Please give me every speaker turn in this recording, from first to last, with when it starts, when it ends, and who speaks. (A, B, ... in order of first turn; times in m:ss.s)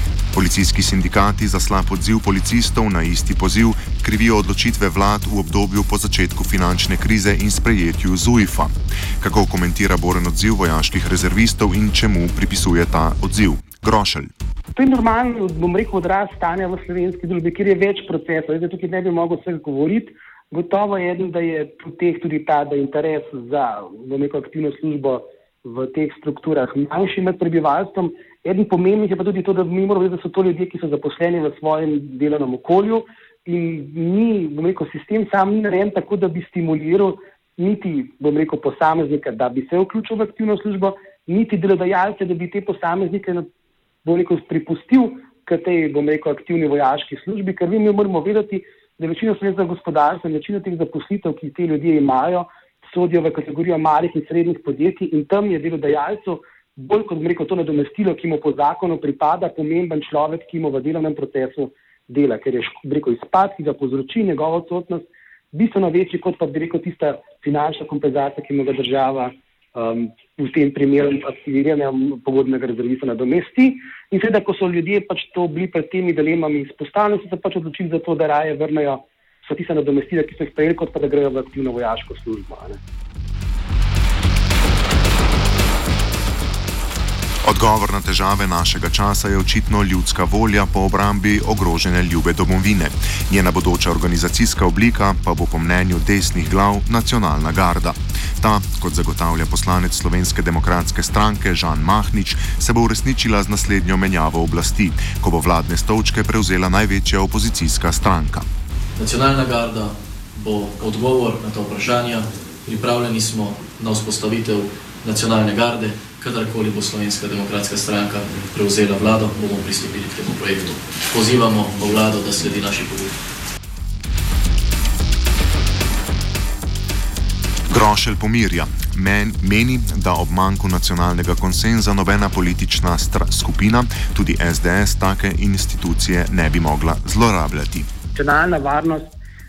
0:00.3-0:14.3 A
0:14.7-0:43.4 B
0:44.0-1:22.8 B
1:27.4-1:48.4 A
1:49.0-2:03.1 C
2:07.7-2:17.9 A
2:18.1-2:19.1 B